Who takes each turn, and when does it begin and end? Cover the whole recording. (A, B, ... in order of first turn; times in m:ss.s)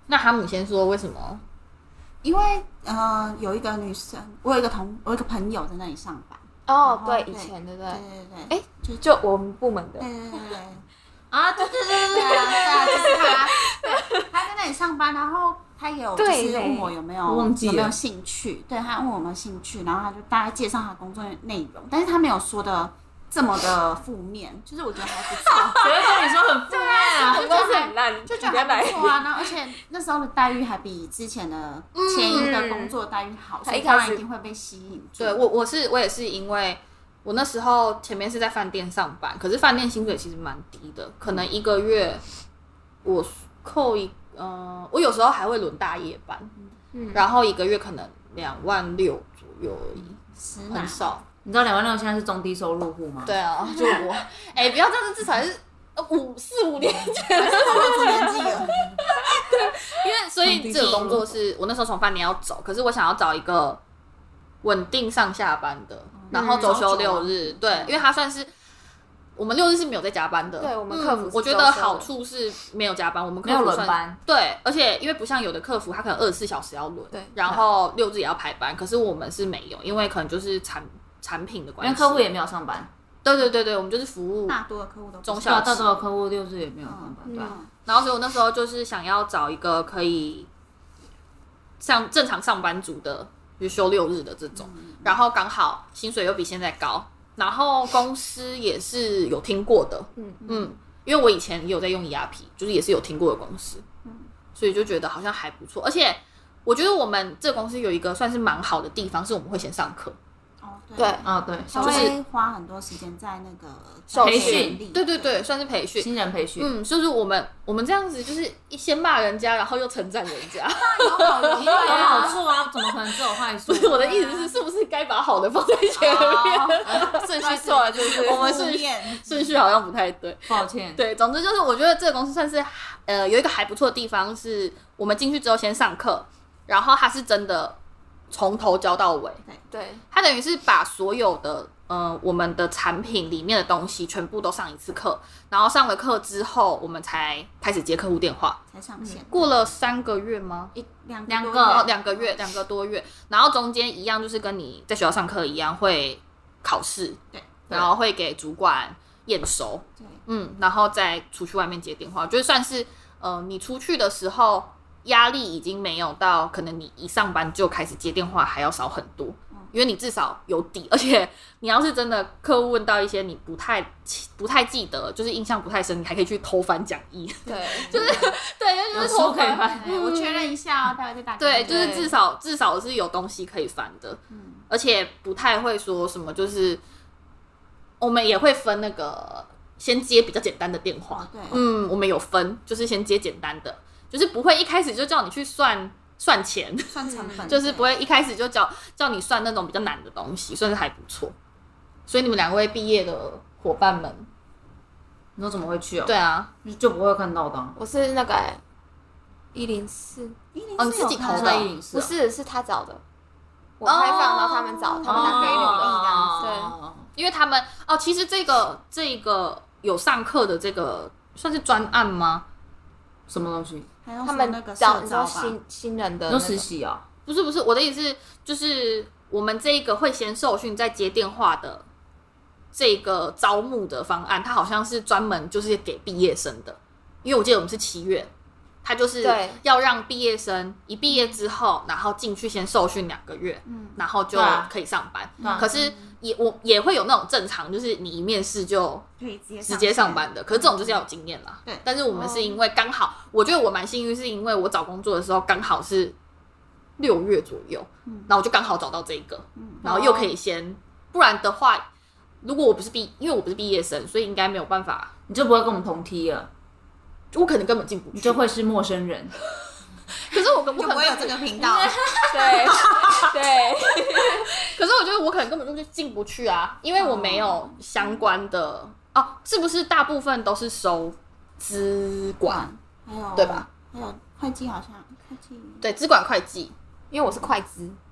0:00.1-0:01.4 A
0:02.2-0:09.0 B
0:06.7-0:10.1 C
0:10.0-0:10.8 B
0:11.3-0:13.4 D
0:11.9-0:14.2 C
0:12.1-0:13.6 B
0:14.3-0:26.2 B
0:16.2-0:16.9 C
0:17.3-0:17.9 D
0:25.4-0:29.5 C
0:25.7-0:27.6 D
0:26.7-0:35.4 B
0:31.9-0:32.5 A
0:32.3-0:32.9 C
0:33.6-0:34.2 C
0:35.2-0:42.2 A
0:43.0-0:46.5 A
0:46.9-0:47.2 C
0:47.1-0:50.2 A
0:50.3-0:51.1 B
0:50.7-0:51.2 A
0:51.4-0:54.0 D
0:53.2-1:03.8 A
0:57.4-0:58.8 B
1:00.4-1:01.3 D
1:04.6-1:08.5 A
1:06.2-1:08.0 B
1:06.3-1:06.8 C
1:09.4-1:22.2 A
1:10.6-1:12.1 C
1:13.4-1:14.2 D
1:17.1-1:17.6 C
1:21.8-1:22.9 D
1:23.2-1:24.6 A
1:24.5-1:25.9 B
1:25.2-1:25.8 A
1:25.4-1:27.6 D
1:26.8-1:27.7 B
1:27.3-1:27.6 C
1:27.8-1:30.5 A
1:31.8-1:43.8 A
1:34.5-1:35.1 B
1:40.2-1:40.4 C
1:40.4-1:40.7 B
1:44.0-1:44.3 B
1:44.5-1:50.2 A
1:50.6-1:55.4 B
1:51.0-1:52.1 C
1:51.2-1:52.1 D
1:54.1-1:54.7 C
1:54.2-1:54.8 D
1:54.9-2:01.9 A
1:56.0-1:56.7 D
2:00.7-2:02.4 B
2:01.6-2:04.1 D
2:01.6-2:02.4 C
2:03.7-2:17.8 A
2:04.0-2:04.6 C
2:05.9-2:09.4 B
2:07.1-2:08.6 C
2:10.5-2:11.0 D
2:18.3-2:19.4 A
2:19.7-2:20.0 C
2:20.1-2:28.6 A
2:28.7-2:29.5 B
2:29.3-2:30.7 A
2:30.7-2:32.4 B
2:31.3-2:31.9 D
2:31.7-2:37.2 A
2:37.3-2:37.6 B
2:37.7-3:00.5 A
2:57.4-2:58.1 C
2:57.4-2:58.3 B
2:58.9-2:59.9 D
2:59.7-3:02.1 B
3:01.4-3:06.8 A
3:01.6-3:02.1 C
3:04.3-3:04.6 B
3:08.0-3:21.3 A
3:11.1-3:11.6 B
3:16.9-3:17.9 B
3:17.1-3:17.6 C
3:22.1-3:24.3 A
3:25.4-3:26.1 D
3:26.0-3:26.5 A
3:26.6-3:27.8 D
3:27.8-3:28.6 C
3:29.5-3:30.4 C
3:30.5-3:31.7 B
3:30.8-3:31.7 A
3:31.2-3:32.1 D
3:31.9-3:33.0 C
3:33.8-3:36.7 C
3:33.8-3:35.0 A
3:35.0-3:36.5 B
3:35.0-3:37.1 D
3:37.2-3:42.4 A
3:43.3-3:43.9 D
3:44.0-3:45.6 B
3:44.2-3:46.6 C
3:46.3-3:47.0 D
3:47.2-3:51.8 A
3:52.7-3:58.3 A
3:58.8-4:09.0 A
3:59.2-3:59.6 C
4:03.6-4:04.0 B
4:04.3-4:04.7 D
4:05.4-4:06.1 B
4:05.4-4:05.6 D
4:09.2-4:11.0 B
4:09.6-4:16.1 A
4:12.2-4:12.4 C
4:17.0-4:21.9 A
4:19.6-4:19.9 B
4:19.8-4:20.3 C
4:22.4-4:25.1 A
4:25.3-4:26.5 D
4:27.3-4:28.4 A
4:28.1-4:29.4 D
4:30.1-4:31.4 A
4:30.7-4:32.0 B
4:31.6-4:32.8 D
4:32.2-4:34.6 C
4:32.6-4:33.3 B
4:34.6-4:42.6 A
4:37.0-4:38.1 B
4:42.4-4:45.8 B
4:43.3-4:43.7 A
4:45.8-4:46.7 A
4:47.1-4:48.0 C